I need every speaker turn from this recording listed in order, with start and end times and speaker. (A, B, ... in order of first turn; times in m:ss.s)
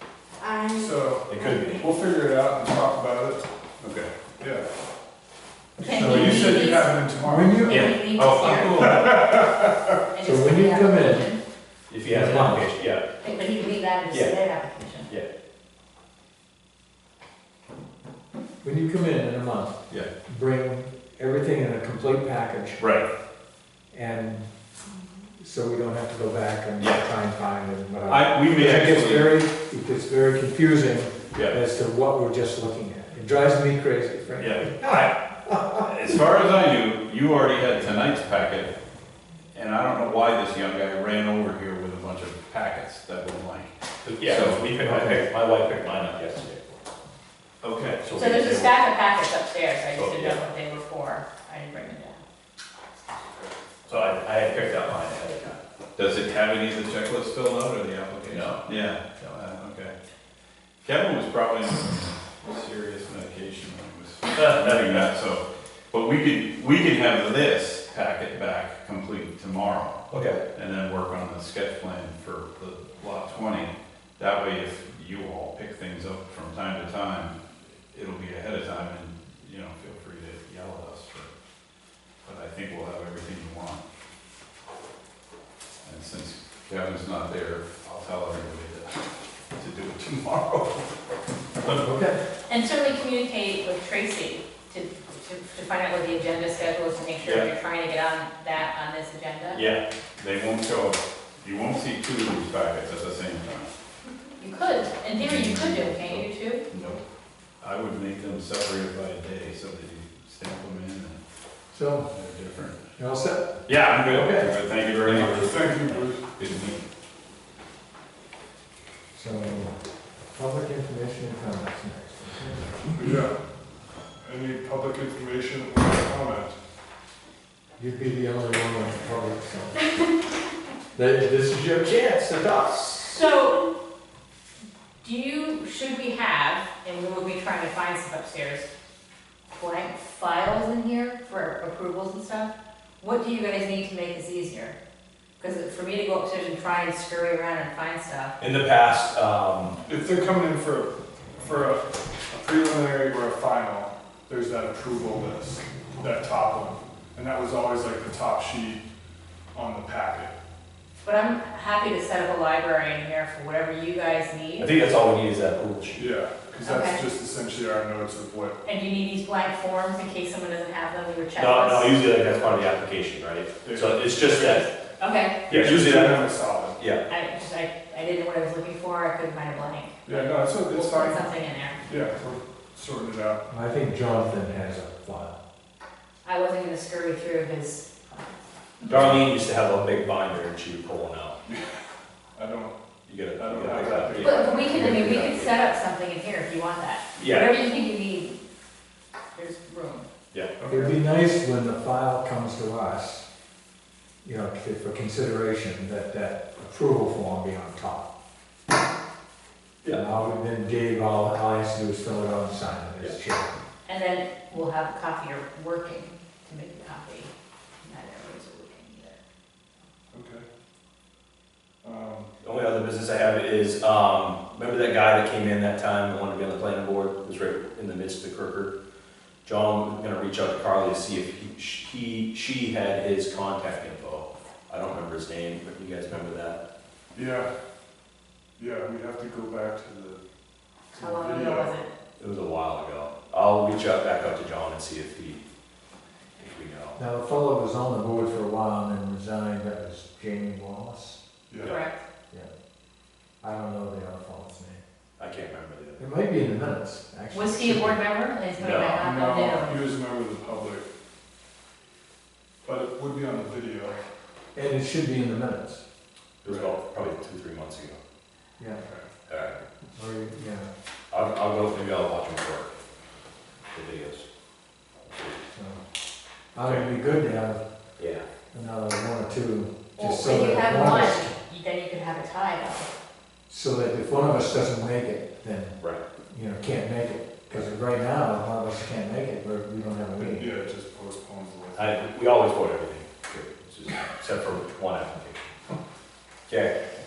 0:00.4-0:01.7 A
0:00.8-0:03.4 B
0:01.3-0:01.8 C
0:03.8-0:04.1 D
0:04.4-0:04.7 B
0:05.8-0:06.9 A
0:05.8-0:06.7 E
0:05.9-0:07.8 B
0:07.2-0:07.9 E
0:07.6-0:09.0 A
0:07.7-0:08.8 C
0:08.2-0:09.1 D
0:08.8-0:09.9 B
0:10.1-0:11.4 A
0:10.2-0:11.3 E
0:11.9-0:13.1 C
0:12.1-0:12.6 E
0:13.2-0:15.1 A
0:14.1-0:14.4 C
0:18.6-0:22.9 E
0:22.8-0:23.1 C
0:23.9-0:24.5 E
0:25.4-0:35.9 E
0:26.8-0:27.0 C
0:28.1-0:29.4 D
0:31.3-0:31.6 C
0:34.4-0:35.1 C
0:35.8-0:38.7 D
0:39.5-0:44.8 D
0:44.0-0:46.8 C
0:44.8-0:45.2 E
0:47.6-0:48.0 D
0:48.0-0:48.7 C
0:48.2-0:52.2 A
0:49.9-0:50.4 C
0:53.8-0:55.6 C
0:56.0-0:59.9 D
0:58.3-0:58.6 C
1:00.8-1:17.4 D
1:04.3-1:05.0 C
1:10.1-1:10.4 C
1:17.9-1:21.3 D
1:22.2-1:23.8 D
1:25.8-1:29.0 D
1:29.5-1:30.8 D
1:31.6-1:32.2 E
1:32.5-1:39.6 A
1:37.2-1:37.5 C
1:39.5-1:39.8 C
1:40.2-1:43.7 D
1:44.4-1:46.6 A
1:44.8-1:47.0 D
1:47.6-1:51.2 D
1:51.7-1:52.1 E
1:52.1-1:52.8 D
1:53.0-1:54.5 E
1:53.7-1:56.8 D
1:55.0-1:56.2 B
1:59.1-1:59.8 E
2:00.3-2:03.0 E
2:02.9-2:03.3 B
2:04.2-2:06.6 B
2:07.8-2:09.9 E
2:10.9-2:13.2 E
2:13.0-2:13.6 A
2:15.0-2:18.7 A
2:19.5-2:24.8 A
2:25.4-2:28.3 A
2:28.4-2:29.8 C
2:29.8-2:38.8 B
2:39.5-2:40.3 B
2:41.0-2:44.7 A
2:44.6-2:46.1 C
2:45.9-2:48.6 B
2:46.6-2:47.0 A
2:48.6-2:52.0 A
2:51.4-2:54.7 C
2:53.6-2:54.7 B
2:55.0-2:55.4 A
2:55.5-2:56.8 B
2:55.5-2:57.1 C
2:57.1-3:01.8 A
3:00.1-3:01.2 B
3:01.8-3:03.4 B
3:03.5-3:05.4 E
3:06.2-3:08.9 A
3:08.9-3:11.4 C
3:12.3-3:12.8 B
3:13.1-3:15.5 C
3:13.3-3:15.2 B
3:14.2-3:18.4 A
3:17.2-3:17.6 C
3:19.3-3:20.1 A
3:20.3-3:20.6 C
3:20.6-3:21.0 B
3:20.7-3:23.2 E
3:24.2-3:28.1 E
3:29.8-3:33.6 E
3:33.8-3:39.2 A
3:40.1-3:40.4 B
3:41.8-3:42.3 B
3:42.4-3:48.7 C
3:49.4-3:56.6 C
3:57.1-3:57.5 B
3:58.6-4:00.2 B
4:00.9-4:01.8 B
4:00.9-4:01.9 A
4:02.2-4:05.4 C
4:06.4-4:07.0 C
4:07.0-4:11.2 E
4:11.5-4:11.8 B
4:11.6-4:12.0 A
4:13.4-4:14.8 E
4:15.2-4:16.1 C
4:16.0-4:18.0 E
4:17.3-4:19.8 A
4:18.6-4:19.0 C
4:19.0-4:20.9 B
4:22.6-4:24.0 B
4:24.5-4:25.8 E
4:26.4-4:28.0 C
4:26.4-4:26.7 B
4:28.8-4:29.1 B
4:29.3-4:29.6 C
4:29.9-4:30.7 E
4:31.1-4:32.8 C
4:33.7-4:34.2 C
4:35.1-4:35.4 C
4:35.5-4:35.8 E
4:36.6-4:37.6 E
4:38.0-4:38.2 C
4:38.5-4:41.3 E
4:40.0-4:42.9 A
4:43.5-4:50.5 E
4:50.2-4:52.1 B
4:51.8-4:55.5 C
4:56.5-4:56.7 C